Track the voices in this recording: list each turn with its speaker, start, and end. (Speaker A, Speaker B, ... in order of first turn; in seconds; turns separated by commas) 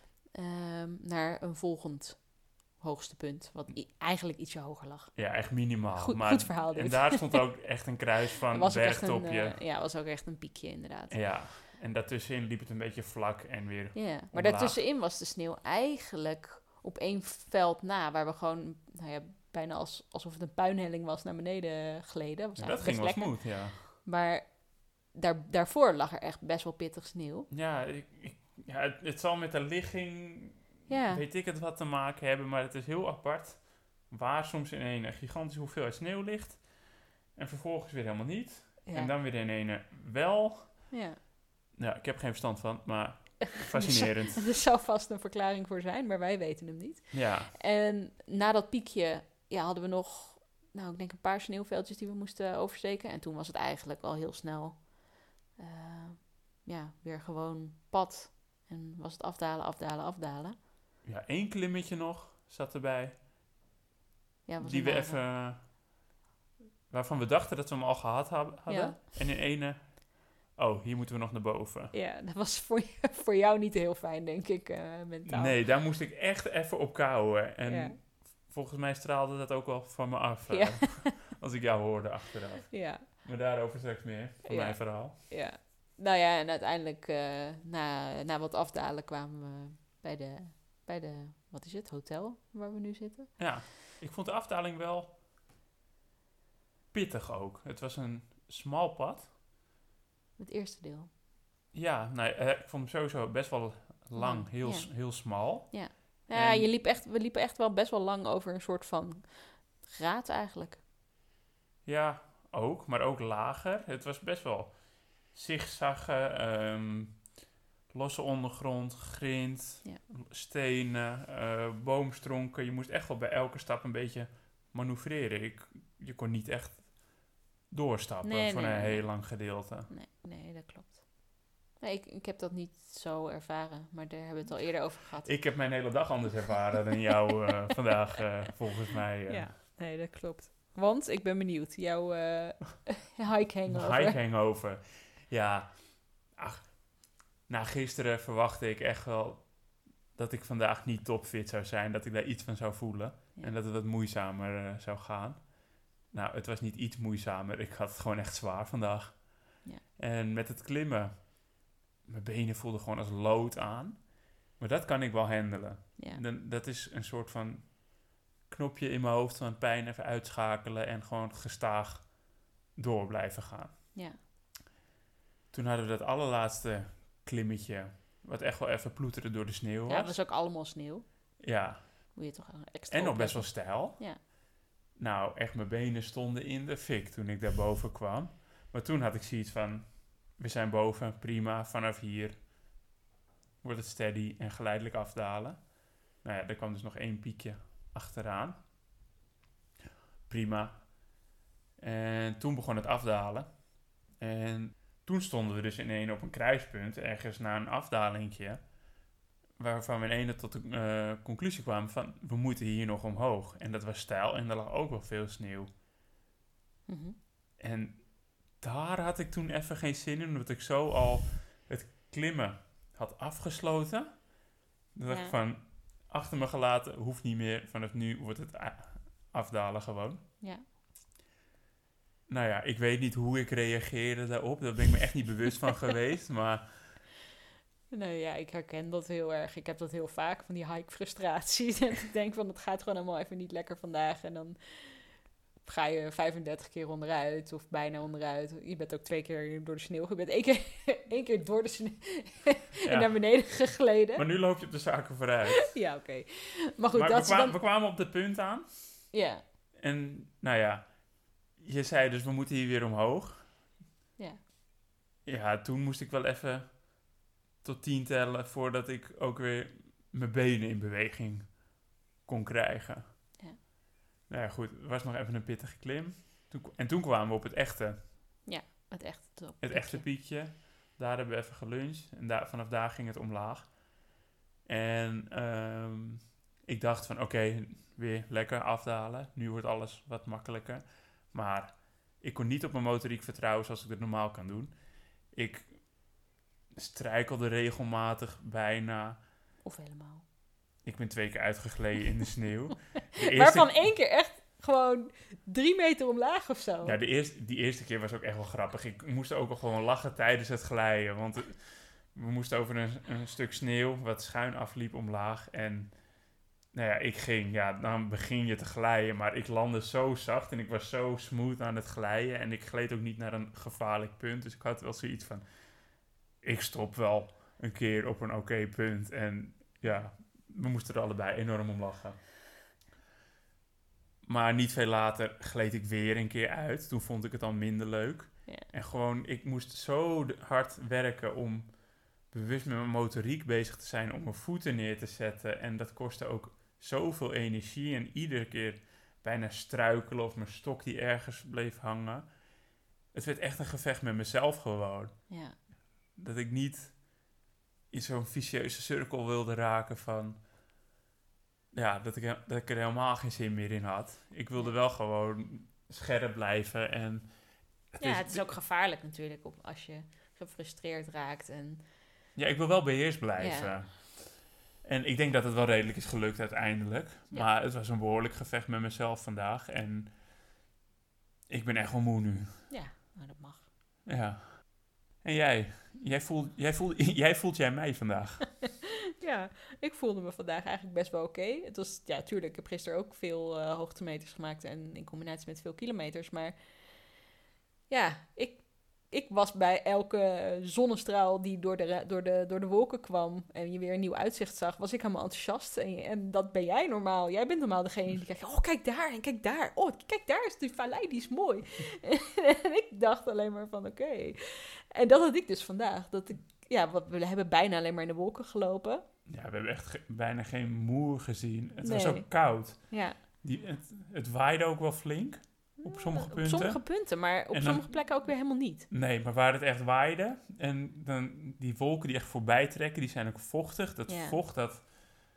Speaker A: 0.3-5.2, Speaker B: 5.2-9.6, Speaker A: 6.0-7.4, Speaker A: 8.5-11.2, Speaker B: 11.1-14.8, Speaker A: 13.9-27.5, Speaker B: 22.6-23.9, Speaker B: 27.5-36.7, Speaker A: 30.9-31.2, Speaker B: 37.3-40.9, Speaker A: 38.8-39.1, Speaker A: 40.9-41.2, Speaker B: 41.7-44.4, Speaker A: 43.6-60.6, Speaker B: 47.1-47.5, Speaker B: 61.0-63.2, Speaker A: 64.5-65.2, Speaker B: 64.6-65.7, Speaker B: 66.9-71.9, Speaker A: 68.7-69.0, Speaker A: 71.9-75.6, Speaker B: 75.2-85.1, Speaker A: 77.7-78.0, Speaker A: 80.5-81.3, Speaker A: 82.7-83.0, Speaker A: 84.4-93.3, Speaker B: 93.4-95.1, Speaker B: 96.9-99.3, Speaker A: 100.4-101.1, Speaker B: 101.7-106.7, Speaker A: 104.2-110.8, Speaker B: 111.8-114.8, Speaker B: 115.3-117.2, Speaker B: 117.9-129.9, Speaker A: 128.2-131.1, Speaker A: 131.8-135.3, Speaker B: 135.2-139.5, Speaker A: 139.3-144.2, Speaker B: 143.7-149.6, Speaker B: 150.1-155.5, Speaker B: 156.1-161.3, Speaker B: 162.1-167.9, Speaker A: 166.0-166.2, Speaker B: 168.4-172.1, Speaker B: 172.8-173.9, Speaker B: 175.5-180.1, Speaker A: 179.9-181.0, Speaker B: 181.4-182.1, Speaker A: 182.1-184.2, Speaker B: 182.9-184.0, Speaker B: 184.9-192.4, Speaker B: 193.6-198.6, Speaker B: 200.3-200.9, Speaker B: 201.8-208.6, Speaker B: 209.6-215.7, Speaker A: 216.9-217.2, Speaker B: 217.6-218.0, Speaker B: 218.6-224.3, Speaker B: 224.9-230.2, Speaker A: 225.1-225.3, Speaker B: 232.3-236.7, Speaker A: 237.9-245.1, Speaker A: 245.6-254.2, Speaker B: 252.8-255.7, Speaker A: 255.7-257.6, Speaker B: 256.9-259.1, Speaker A: 259.1-259.4, Speaker B: 259.8-261.0, Speaker B: 261.6-263.5, Speaker B: 265.2-266.9, Speaker B: 267.6-271.6, Speaker B: 272.2-273.0, Speaker B: 274.3-278.1, Speaker A: 278.4-280.0, Speaker B: 279.6-283.8, Speaker B: 284.6-294.7, Speaker B: 295.3-295.8, Speaker B: 296.7-299.2, Speaker A: 299.6-300.2, Speaker B: 300.8-303.7, Speaker A: 303.1-307.0, Speaker B: 306.8-315.9, Speaker B: 316.7-325.4, Speaker B: 326.4-332.2, Speaker B: 334.2-341.8, Speaker B: 342.3-352.3, Speaker B: 353.1-355.2, Speaker A: 355.3-355.6, Speaker B: 356.1-357.1, Speaker B: 357.9-360.4, Speaker B: 361.7-367.3, Speaker B: 367.9-368.5, Speaker A: 368.0-371.8, Speaker B: 372.4-380.1, Speaker A: 373.4-373.8, Speaker B: 381.5-382.6, Speaker A: 382.7-383.7, Speaker B: 384.1-388.5, Speaker A: 388.8-396.6, Speaker A: 397.9-419.0, Speaker B: 419.3-426.9, Speaker A: 421.8-423.2, Speaker A: 425.8-428.9, Speaker B: 427.5-427.9, Speaker B: 428.9-434.9, Speaker A: 434.1-434.4